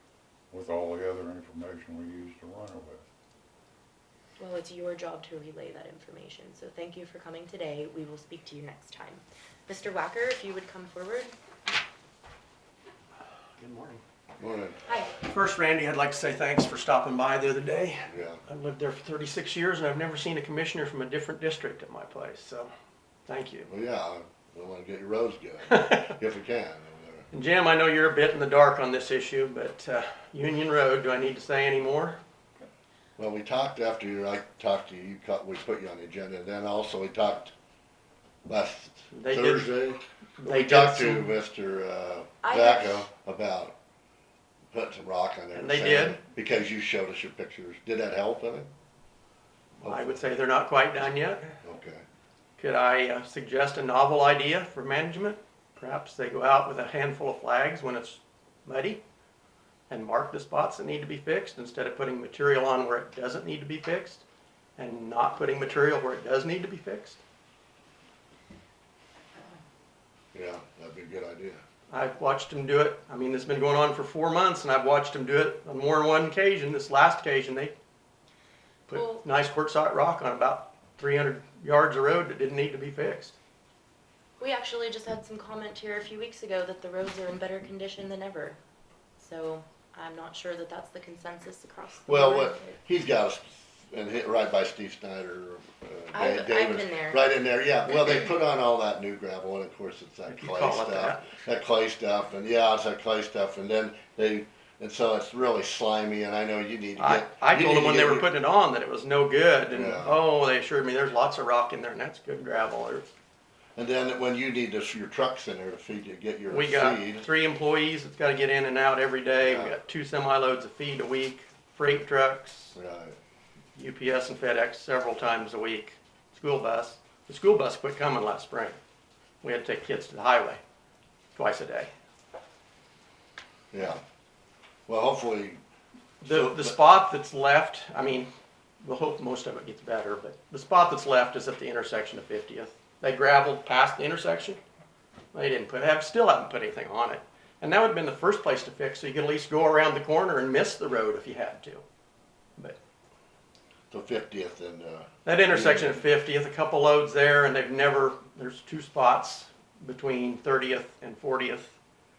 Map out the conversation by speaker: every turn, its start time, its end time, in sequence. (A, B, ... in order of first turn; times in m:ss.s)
0:00.5-0:03.1 A
0:04.4-0:11.3 B
0:13.6-0:14.0 C
0:14.4-0:14.8 D
0:15.2-0:22.7 C
0:18.1-0:18.4 D
0:23.3-0:23.7 C
0:23.7-0:27.3 D
0:25.7-0:26.1 C
0:27.3-0:32.2 C
0:33.2-0:37.5 D
0:38.5-0:43.8 D
0:39.1-0:39.8 C
0:40.4-0:41.4 C
0:42.4-0:43.1 B
0:44.7-0:48.7 D
0:45.6-0:46.2 C
0:49.8-0:50.2 D
0:49.8-0:51.6 C
0:51.6-0:52.0 D
0:52.6-0:59.0 C
0:59.9-1:04.2 C
1:04.8-1:07.2 C
1:10.3-1:11.6 D
1:11.9-1:17.8 C
1:18.9-1:23.4 C
1:18.9-1:19.2 B
1:24.4-1:28.6 B
1:29.2-1:32.7 B
1:32.1-1:48.3 D
1:36.1-1:37.3 B
1:40.3-1:41.3 C
1:47.0-1:53.1 C
1:49.7-1:50.2 D
1:53.8-1:57.3 D
1:56.5-2:02.7 C
1:59.4-1:59.8 D
2:02.7-2:03.2 D
2:03.8-2:08.8 C
2:09.4-2:10.6 C
2:11.4-2:11.9 C
2:13.7-2:14.0 D
2:14.9-2:15.6 D
2:16.2-2:16.8 D
2:16.2-2:18.3 C
2:18.8-2:24.6 C
2:25.3-2:31.8 C
2:33.9-2:36.0 D
2:35.2-2:41.8 C